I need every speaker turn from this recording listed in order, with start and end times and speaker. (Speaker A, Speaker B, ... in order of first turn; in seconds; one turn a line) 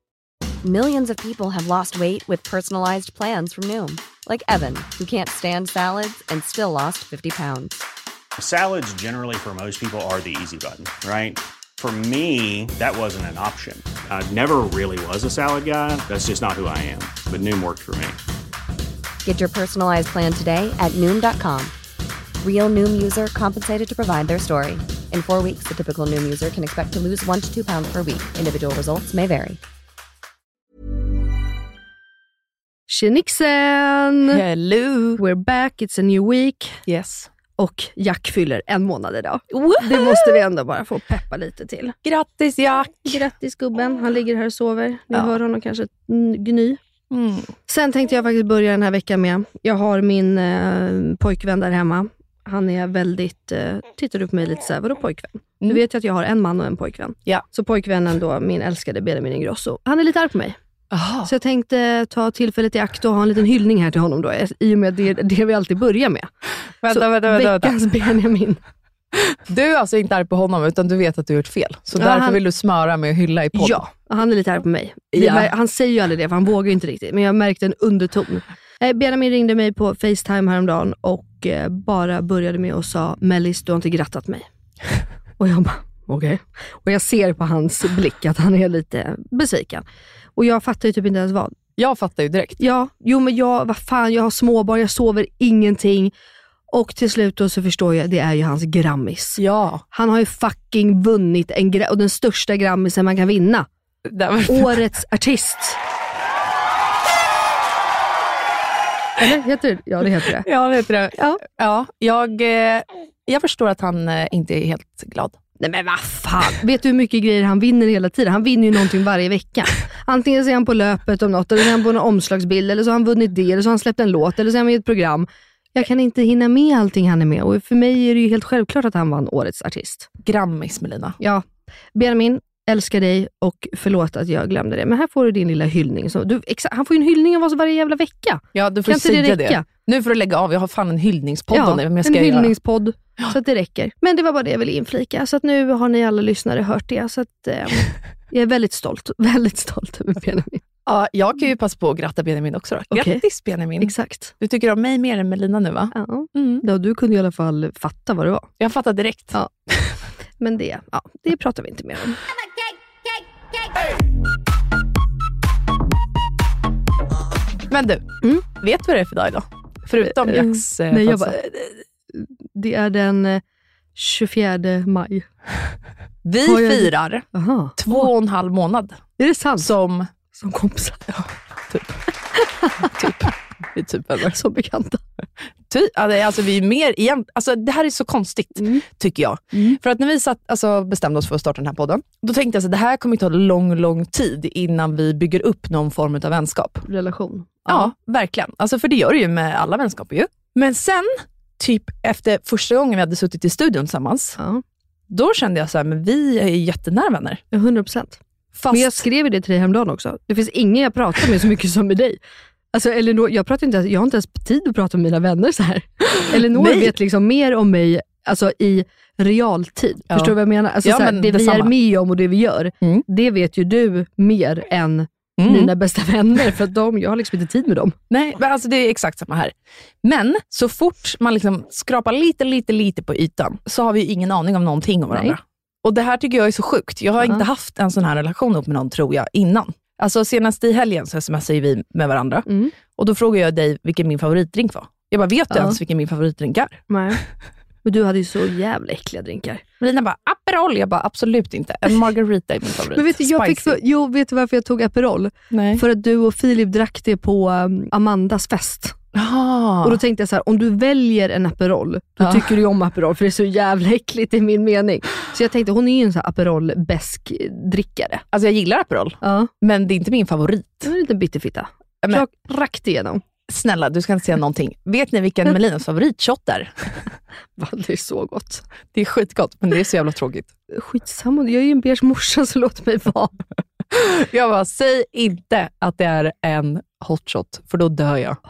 Speaker A: 0.6-7.8
Speaker B: 8.4-18.2
Speaker A: 19.2-21.7
Speaker A: 22.4-29.6
Speaker C: 32.9-34.4
Speaker D: 34.3-35.2
Speaker C: 35.2-36.8
Speaker D: 36.9-37.3
Speaker C: 37.6-42.0
Speaker D: 39.5-40.4
Speaker D: 42.0-43.2
Speaker C: 43.1-46.8
Speaker D: 47.1-47.5
Speaker C: 47.7-60.6
Speaker D: 60.9-61.3
Speaker C: 61.2-66.3
Speaker D: 66.8-67.8
Speaker C: 66.9-68.6
Speaker D: 69.1-73.8
Speaker C: 72.0-72.4
Speaker C: 73.5-84.5
Speaker D: 75.1-75.5
Speaker C: 85.4-89.8
Speaker C: 90.3-91.6
Speaker D: 91.8-92.6
Speaker C: 92.6-96.1
Speaker C: 96.7-99.4
Speaker D: 99.4-99.8
Speaker C: 99.9-103.7
Speaker D: 104.0-104.8
Speaker C: 104.5-105.8
Speaker C: 109.2-110.5
Speaker D: 110.0-115.3
Speaker C: 115.6-130.1
Speaker D: 130.2-131.2
Speaker C: 131.2-139.7
Speaker D: 138.5-142.5
Speaker C: 141.5-150.6
Speaker D: 150.8-156.6
Speaker C: 152.9-153.2
Speaker C: 153.8-154.3
Speaker C: 155.9-158.5
Speaker D: 158.6-159.9
Speaker C: 160.4-162.2
Speaker D: 167.7-171.4
Speaker C: 170.1-173.4
Speaker C: 173.9-175.3
Speaker D: 176.2-179.0
Speaker C: 176.4-178.1
Speaker C: 179.2-179.7
Speaker D: 179.6-180.1
Speaker C: 180.3-181.1
Speaker D: 181.1-182.0
Speaker C: 182.3-183.1
Speaker D: 182.8-184.4
Speaker C: 184.3-185.0
Speaker D: 185.7-196.9
Speaker C: 188.6-188.8
Speaker C: 196.9-197.9
Speaker D: 197.7-204.4
Speaker D: 205.1-207.4
Speaker C: 207.5-208.2
Speaker D: 208.5-209.0
Speaker C: 208.7-212.2
Speaker C: 212.7-227.9
Speaker D: 216.3-216.9
Speaker D: 220.1-221.7
Speaker D: 225.4-225.7
Speaker D: 228.1-246.8
Speaker C: 235.1-235.4
Speaker C: 242.5-242.7
Speaker C: 245.5-245.8
Speaker C: 246.9-247.2
Speaker C: 247.8-249.6
Speaker D: 249.8-253.8
Speaker C: 252.9-258.9
Speaker D: 255.5-255.8
Speaker D: 259.1-260.0
Speaker C: 259.8-268.2
Speaker D: 262.2-262.5
Speaker D: 268.3-270.9
Speaker C: 269.2-269.5
Speaker C: 270.8-273.2
Speaker D: 273.5-277.0
Speaker C: 277.6-278.6
Speaker D: 278.9-280.5
Speaker C: 280.7-283.4
Speaker D: 283.9-288.4